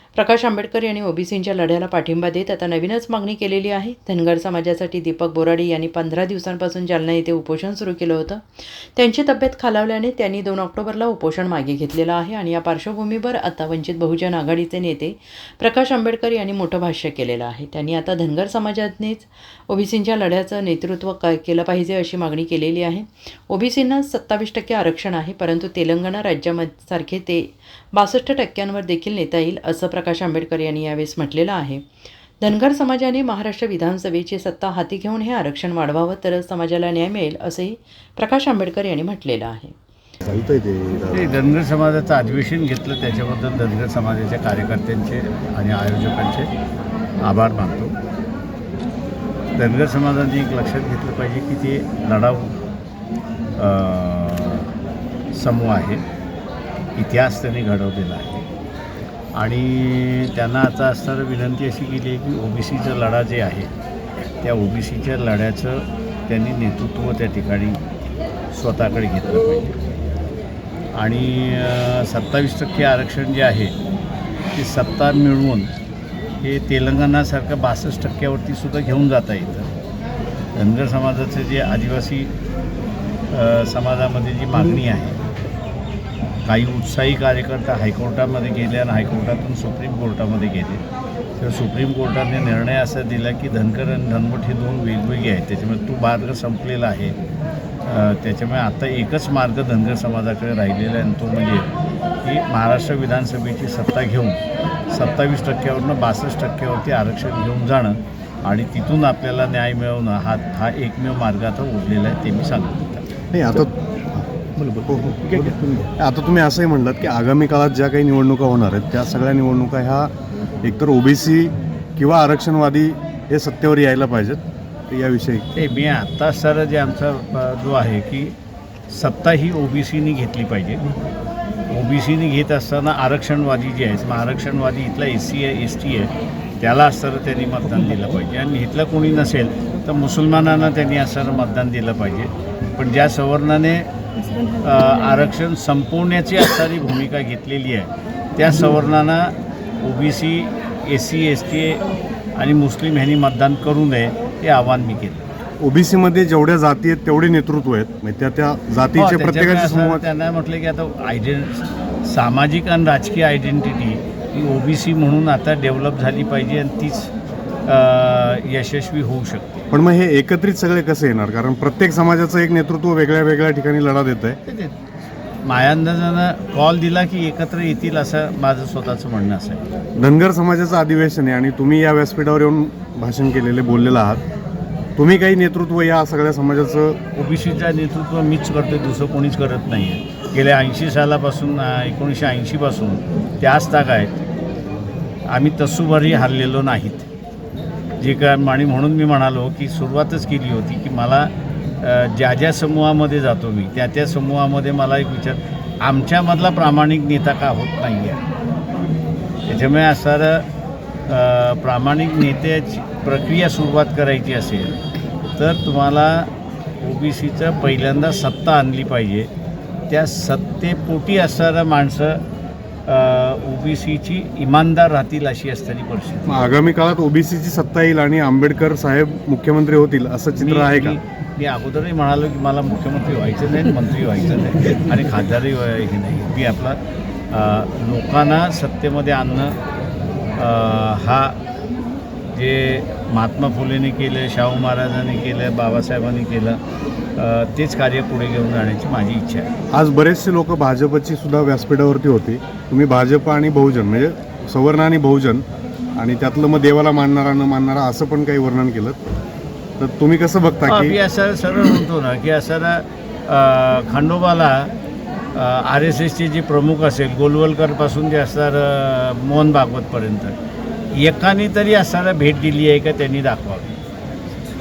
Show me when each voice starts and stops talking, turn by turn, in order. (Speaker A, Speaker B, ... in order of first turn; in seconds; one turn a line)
Speaker A: 0.1-31.8
Speaker A: 32.4-39.7
Speaker B: 40.2-41.4
Speaker C: 41.1-46.5
Speaker C: 47.2-48.0
Speaker C: 49.5-52.6
Speaker C: 53.6-54.7
Speaker C: 55.3-56.0
Speaker C: 57.0-58.5
Speaker C: 59.4-63.7
Speaker C: 64.4-67.8
Speaker C: 68.5-69.8
Speaker C: 70.9-73.7
Speaker C: 74.5-75.7
Speaker C: 76.4-79.7
Speaker C: 80.5-82.3
Speaker C: 83.3-85.2
Speaker C: 86.4-90.8
Speaker C: 91.4-97.1
Speaker C: 97.8-101.7
Speaker C: 102.2-104.4
Speaker C: 104.9-113.0
Speaker B: 113.3-113.7
Speaker C: 114.5-115.9
Speaker B: 114.9-120.1
Speaker B: 120.6-125.5
Speaker C: 125.5-128.3
Speaker C: 128.9-130.8
Speaker C: 131.7-151.8
Speaker C: 152.3-155.2
Speaker B: 155.6-160.0
Speaker C: 158.9-167.1
Speaker C: 167.6-169.6
Speaker B: 169.7-174.4
Speaker C: 174.4-174.8
Speaker C: 175.4-179.6
Speaker B: 180.0-184.2
Speaker B: 184.9-187.0
Speaker C: 187.2-194.1
Speaker C: 195.3-197.1
Speaker C: 198.0-208.2
Speaker C: 209.4-210.4
Speaker C: 211.1-214.8
Speaker C: 215.4-219.3
Speaker C: 219.9-222.2
Speaker C: 222.8-226.5
Speaker B: 226.2-231.0
Speaker C: 230.4-236.8
Speaker C: 237.3-239.6
Speaker C: 240.4-241.4
Speaker C: 242.3-246.6
Speaker C: 247.2-249.5
Speaker B: 249.7-255.4
Speaker B: 255.9-259.0
Speaker B: 259.8-261.0
Speaker C: 260.7-264.7
Speaker C: 265.3-270.3
Speaker C: 270.9-273.8